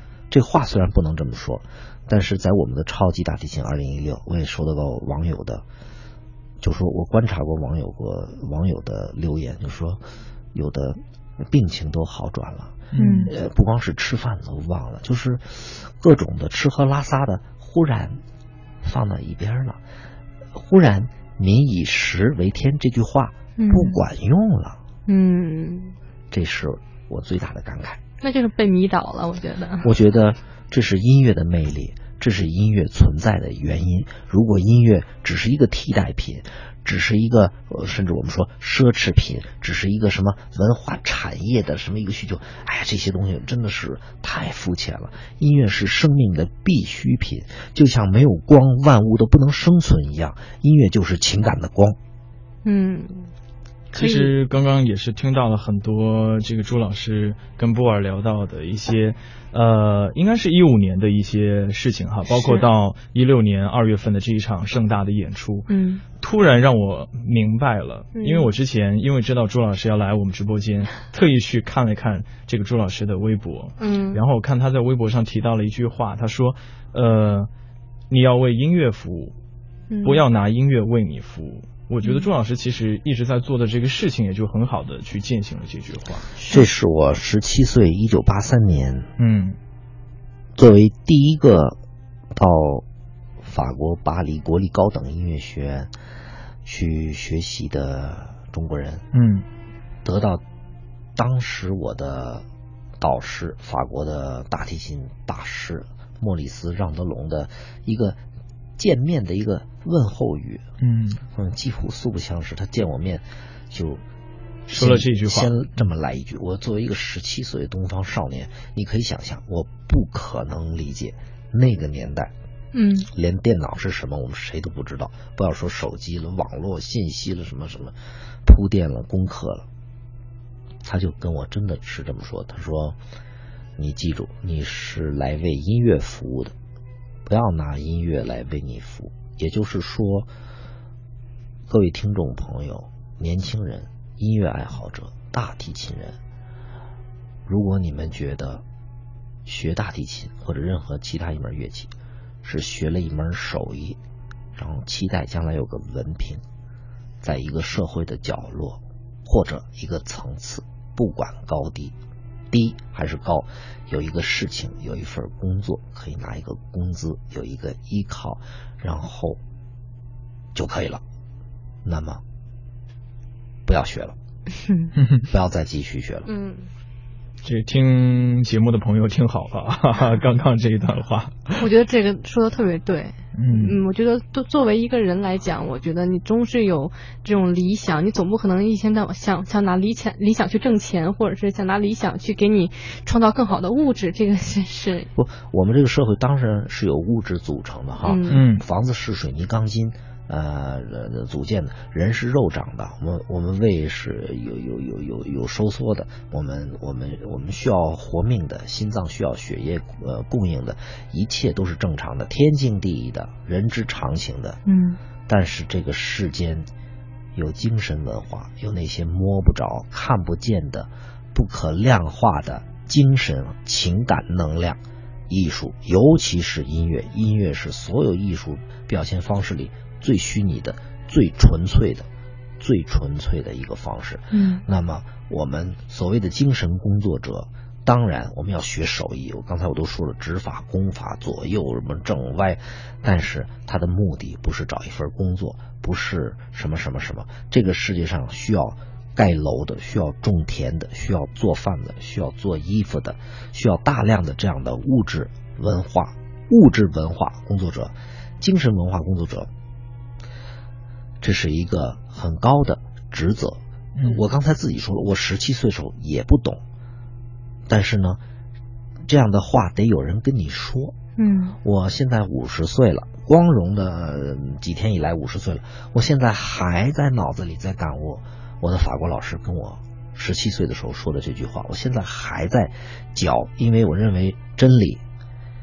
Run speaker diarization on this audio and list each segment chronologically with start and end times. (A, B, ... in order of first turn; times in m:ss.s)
0:00.3-0:05.6 A
0:06.6-0:10.0 A
0:10.5-0:18.2 A
0:12.9-0:13.3 B
0:13.0-0:13.3 C
0:18.8-0:19.8 A
0:20.5-0:24.8 A
0:23.6-0:24.0 C
0:25.0-0:26.0 C
0:26.3-0:28.0 A
0:28.2-0:29.9 C
0:29.8-0:52.0 A
0:52.6-0:53.3 C
0:53.9-1:05.7 B
0:53.9-0:54.3 C
1:02.3-1:02.6 C
1:05.7-1:06.0 C
1:06.2-1:17.5 B
1:08.1-1:08.5 C
1:13.8-1:14.2 C
1:18.1-1:19.3 B
1:19.9-1:20.2 C
1:20.0-1:26.3 B
1:22.0-1:22.3 C
1:26.4-1:26.7 C
1:26.5-1:29.1 A
1:29.2-1:29.6 B
1:30.6-1:31.8 A
1:32.3-1:32.8 A
1:33.4-1:35.9 A
1:36.6-1:39.0 A
1:39.1-1:39.4 B
1:40.0-1:40.4 A
1:41.2-1:42.4 A
1:43.0-1:48.2 A
1:48.8-1:50.6 A
1:50.8-1:51.2 B
1:51.3-1:54.0 A
1:54.7-2:02.3 A
1:54.7-1:55.5 B
2:02.7-2:03.1 C
2:03.1-2:09.6 A
2:10.8-2:13.0 A
2:13.8-2:16.5 A
2:17.2-2:20.3 A
2:21.7-2:26.2 A
2:27.4-2:28.6 A
2:29.4-2:31.9 A
2:32.4-2:34.0 A
2:34.5-2:36.4 A
2:37.2-2:41.9 A
2:42.5-2:49.4 A
2:50.5-2:51.0 A
2:51.8-2:52.2 A
2:53.6-2:54.1 A
2:55.0-2:55.2 B
2:55.2-2:56.3 A
2:56.2-2:56.7 C
2:57.4-3:01.6 B
3:01.6-3:15.1 C
3:03.3-3:03.8 B
3:15.2-3:34.6 A
3:18.0-3:18.4 C
3:18.3-3:18.6 B
3:34.6-3:35.0 C
3:35.3-3:36.7 A
3:37.3-3:52.0 A
3:52.6-4:19.5 A
3:54.3-3:54.6 C
4:21.2-4:26.6 A
4:24.0-4:24.2 B
4:27.7-4:28.2 A
4:29.1-4:30.9 A
4:31.2-4:31.6 C
4:31.6-4:45.0 A